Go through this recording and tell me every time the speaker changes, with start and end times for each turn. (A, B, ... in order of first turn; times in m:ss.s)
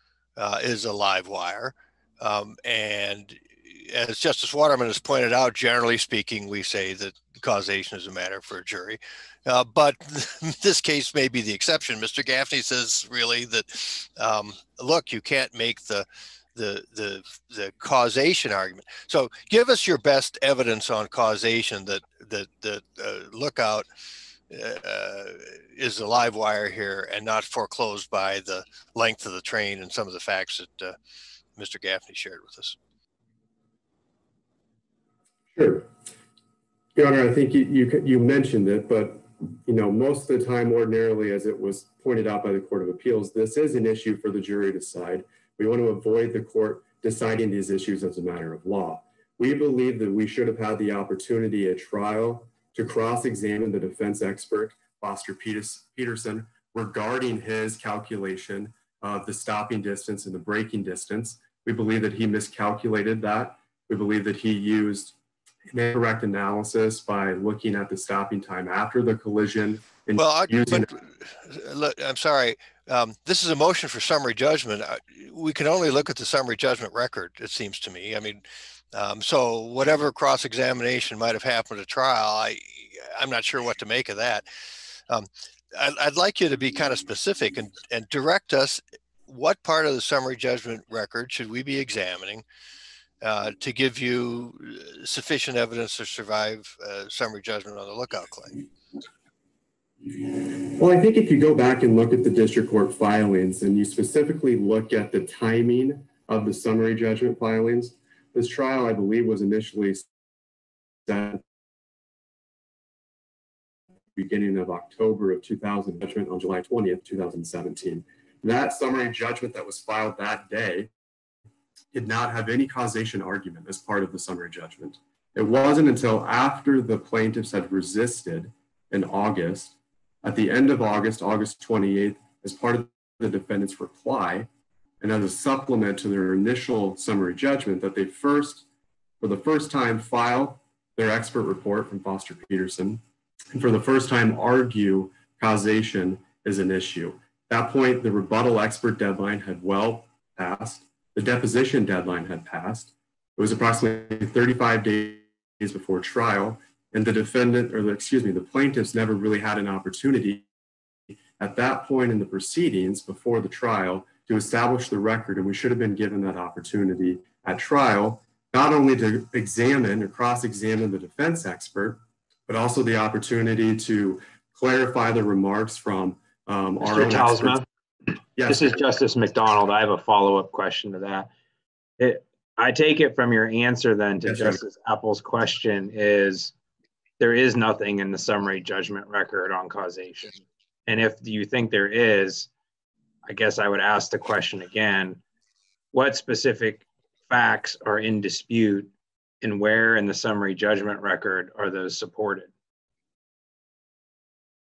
0:00.4-0:23.9 A
0:24.5-0:31.0 A
0:31.6-0:32.8 A
0:35.5-0:35.9 B
0:36.9-1:05.1 B
1:05.7-1:10.9 B
1:10.2-1:24.4 A
1:25.1-1:32.4 A
1:33.2-1:38.6 A
1:40.4-1:50.1 B
1:51.1-1:51.4 B
1:54.2-2:00.9 B
2:01.9-2:14.5 B
2:15.0-2:18.6 B
2:19.2-2:40.4 B
2:41.4-2:57.6 B
2:56.8-2:57.6 C
2:58.4-2:58.8 B
2:58.5-3:01.3 C
3:02.0-3:06.5 C
3:04.2-3:04.6 B
3:07.2-3:12.5 C
3:13.2-3:15.2 C
3:15.9-3:22.5 C